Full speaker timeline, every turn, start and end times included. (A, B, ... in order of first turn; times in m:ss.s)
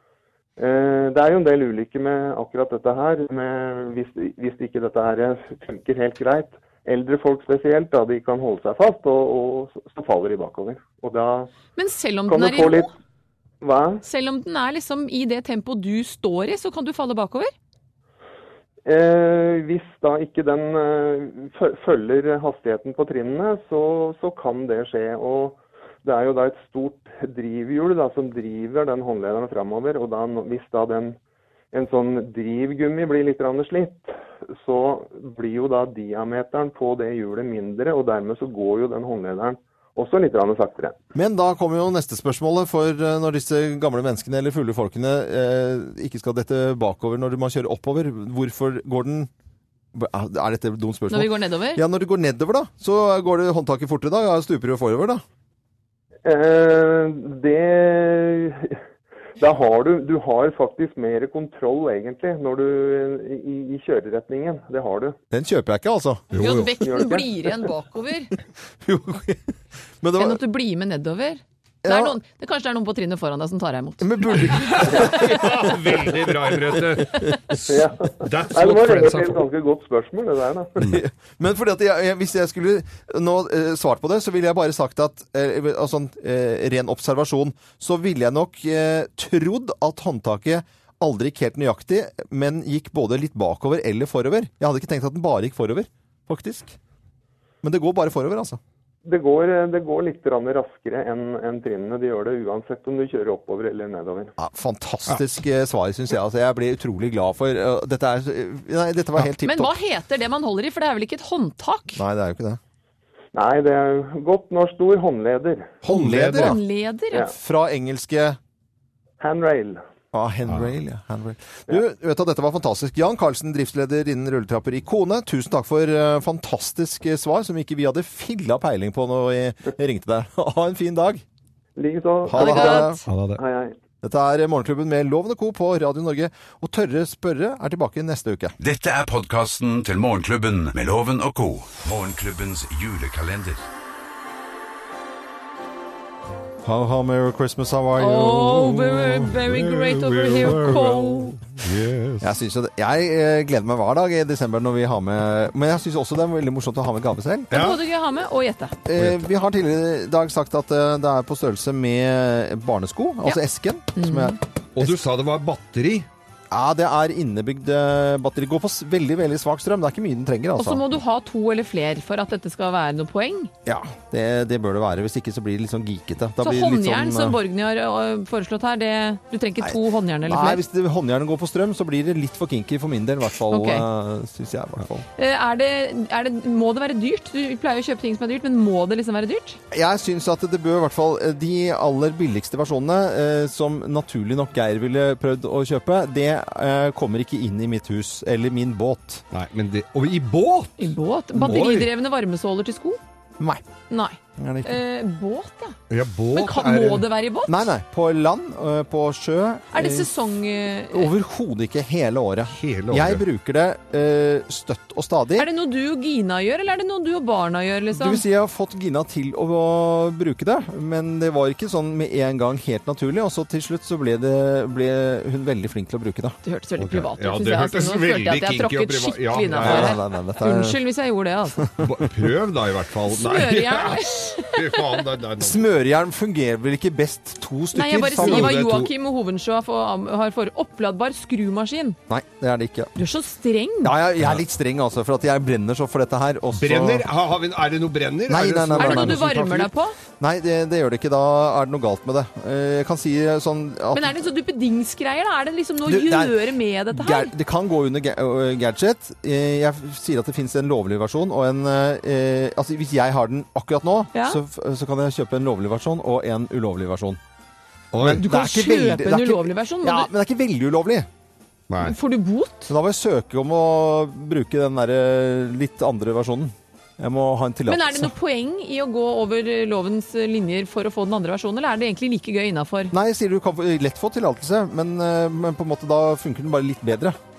0:00.6-0:11.5 A
0:11.8-0:12.9 B
0:12.3-0:12.9 A
0:13.6-0:14.0 A
0:14.0-0:17.5 B
0:18.9-0:31.2 A
0:31.7-0:41.0 A
0:41.2-0:49.3 C
0:49.9-0:55.2 C
0:51.1-0:51.8 B
0:56.2-0:58.8 A
0:59.4-1:05.2 A
1:05.3-1:06.3 C
1:06.3-1:06.8 D
1:06.3-1:08.3 B
1:06.8-1:07.6 A
1:08.8-1:10.4 C
1:10.2-1:14.1 B
1:11.8-1:12.2 C
1:14.0-1:16.1 C
1:14.4-1:19.4 D
1:17.7-1:20.9 A
1:20.8-1:36.8 C
1:37.6-1:38.6 C
1:39.0-1:44.3 A
1:44.4-1:49.7 C
1:49.4-1:52.0 B
1:52.0-1:52.6 C
1:53.3-1:55.8 A
1:55.8-1:56.6 C
1:55.9-1:56.6 D
1:56.2-1:57.3 B
1:57.3-1:58.4 C
1:59.2-1:59.8 A
2:00.1-2:11.2 C
2:11.8-2:13.8 A
2:12.3-2:13.0 C
2:12.4-2:13.0 B
2:13.1-2:13.4 D
2:14.0-2:18.6 C
2:18.6-2:23.6 E
2:26.6-2:28.7 C
2:28.0-2:31.4 B
2:28.6-2:32.3 D
2:32.2-2:37.5 C
2:37.5-2:37.8 D
2:37.5-2:38.8 B
2:38.9-2:45.0 C
2:39.0-2:39.2 D
2:44.0-2:44.4 B
2:44.8-2:46.1 D
2:46.5-2:50.8 C
2:50.6-2:53.5 B
2:53.6-2:57.4 C
2:56.4-3:00.6 B
2:59.6-3:05.0 C
3:03.5-3:03.8 B
3:05.2-3:09.6 B
3:09.7-3:19.2 C
3:19.3-3:21.9 D
3:20.8-3:23.0 B
3:23.4-3:23.6 C
3:23.9-3:25.8 B
3:24.4-3:24.8 C
3:25.9-3:27.1 D
3:26.3-3:27.7 B
3:27.5-3:30.1 C
3:29.7-3:31.1 B
3:30.9-3:35.5 C
3:32.5-3:33.2 D
3:35.4-3:38.2 B
3:37.9-3:46.4 C
3:46.4-3:51.6 B
3:46.8-3:50.0 D
3:49.6-3:50.8 C
3:51.6-3:52.1 C
3:51.8-3:55.6 D
3:53.1-3:55.0 B
3:55.4-3:58.5 C
3:57.7-4:02.0 B
3:58.2-3:58.9 D
4:02.1-4:02.9 C
4:03.0-4:04.0 B
4:03.8-4:07.1 C
4:06.6-4:09.7 D
4:08.3-4:09.2 C
4:08.8-4:10.0 B
4:10.2-4:14.2 C
4:13.9-4:17.3 B
4:15.9-4:27.2 C
4:24.1-4:24.4 B
4:27.9-4:28.2 D
4:28.0-4:31.1 C
4:28.1-4:30.1 B
4:31.7-4:32.0 D
4:31.8-4:32.7 B
4:32.7-4:38.1 C
4:37.7-4:42.9 B
4:42.9-4:47.2 C